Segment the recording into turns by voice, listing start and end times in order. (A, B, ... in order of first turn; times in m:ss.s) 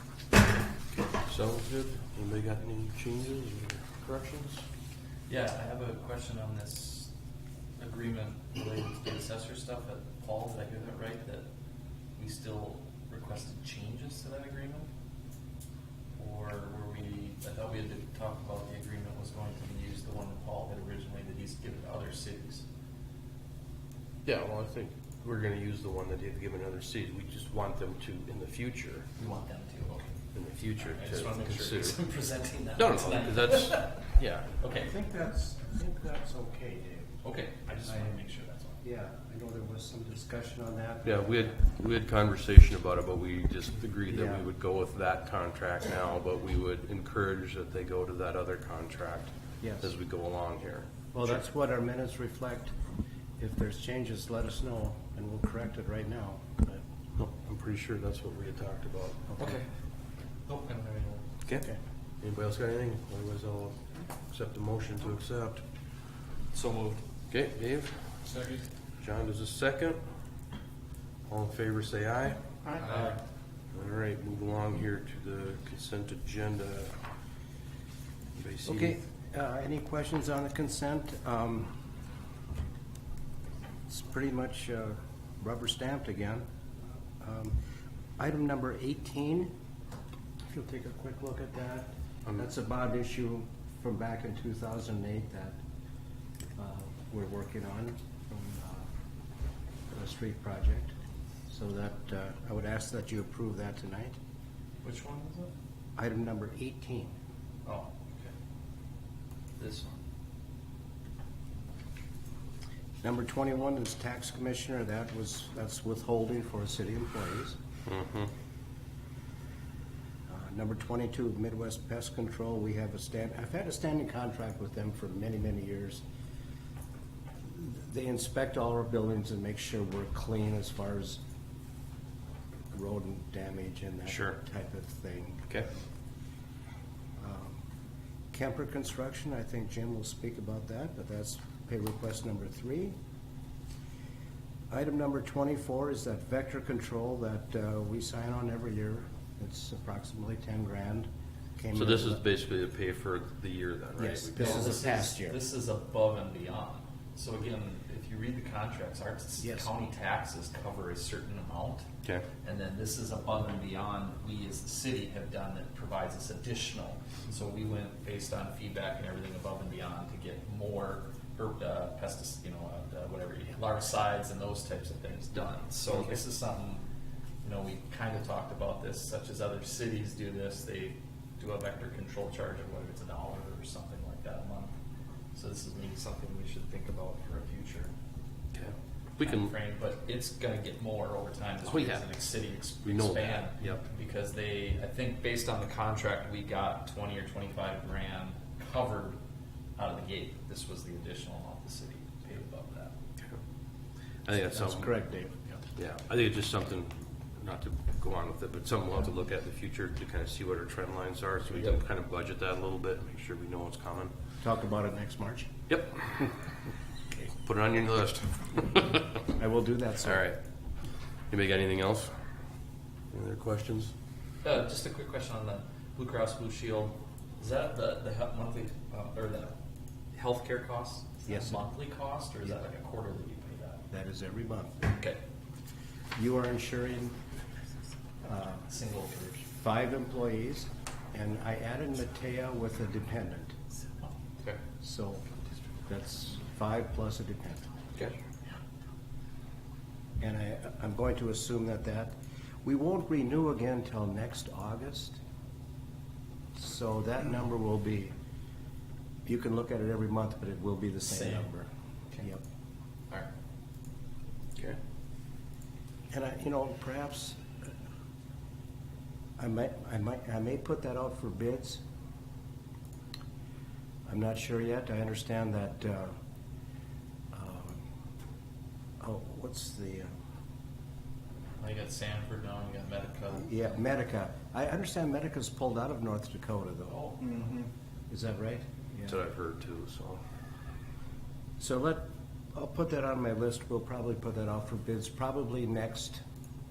0:01.3-0:04.6 A
0:05.3-0:07.1 B
0:07.8-0:11.5 B
0:12.2-0:14.9 B
0:16.2-0:22.7 B
0:24.2-0:29.1 A
0:29.2-0:30.1 B
0:30.3-0:32.0 A
0:30.8-0:34.0 B
0:32.8-0:34.6 A
0:34.6-0:34.9 B
0:34.7-0:37.2 C
0:37.2-0:38.8 B
0:37.8-0:38.1 C
0:38.8-0:41.5 C
0:41.0-0:50.9 A
0:44.1-0:44.4 C
0:49.6-0:49.9 C
0:51.1-0:52.8 C
0:53.4-0:56.4 C
0:56.7-0:59.3 A
0:59.3-0:59.6 C
0:59.4-0:59.7 B
1:00.4-1:01.3 B
1:02.2-1:05.6 A
1:06.5-1:07.0 B
1:07.3-1:10.0 A
1:11.3-1:12.4 A
1:12.8-1:13.2 B
1:13.7-1:17.0 A
1:18.4-1:19.0 A
1:18.6-1:21.8 C
1:23.9-1:26.5 C
1:27.2-1:27.6 C
1:28.2-1:29.5 C
1:30.5-1:35.6 C
1:36.6-1:38.8 C
1:39.9-1:40.9 C
1:41.5-1:44.2 C
1:44.8-1:45.5 B
1:46.0-1:47.2 C
1:47.6-1:48.3 B
1:49.6-1:50.0 B
1:53.0-1:57.6 C
1:57.9-1:58.3 A
2:00.3-2:06.0 C
2:07.5-2:11.2 C
2:12.7-2:15.7 C
2:14.1-2:14.4 A
2:17.2-2:17.6 C
2:18.3-2:22.9 C
2:24.7-2:32.2 C
2:31.7-2:34.8 A
2:34.0-2:35.4 C
2:34.4-2:41.9 B
2:39.4-2:39.7 C
2:42.4-2:56.8 B
2:55.9-2:56.2 A
2:57.4-3:04.7 B
3:05.3-3:07.9 B
3:08.5-3:09.5 A
3:09.2-3:19.2 B
3:11.7-3:12.0 A
3:12.8-3:13.8 A
3:19.8-3:22.9 B
3:24.2-3:25.0 A
3:24.5-3:25.4 C
3:25.8-3:34.1 A
3:34.4-3:35.5 C
3:35.7-3:36.3 A
3:37.4-3:39.1 A
3:39.3-3:40.2 C
3:40.0-3:40.4 A
3:41.3-3:42.2 A
3:43.1-3:43.9 A
3:44.4-3:49.6 B
3:50.1-3:53.8 B
3:51.3-3:51.7 C
3:53.9-3:54.8 C
3:54.8-3:55.2 B
3:56.2-3:57.2 C
3:58.2-3:58.7 C
3:58.7-3:59.5 B
3:59.5-4:03.6 C
4:04.8-4:05.2 C
4:05.9-4:07.7 C
4:10.2-4:15.2 C
4:16.5-4:18.1 C
4:19.2-4:21.7 C
4:21.1-4:21.5 B
4:26.1-4:27.7 C
4:29.4-4:31.8 C
4:34.1-4:36.1 C
4:37.3-4:37.8 C
4:39.0-4:40.1 C
4:41.6-4:43.5 B
4:43.4-4:47.5 C
4:48.1-4:49.2 C
4:49.0-4:50.2 A
4:51.6-4:56.2 C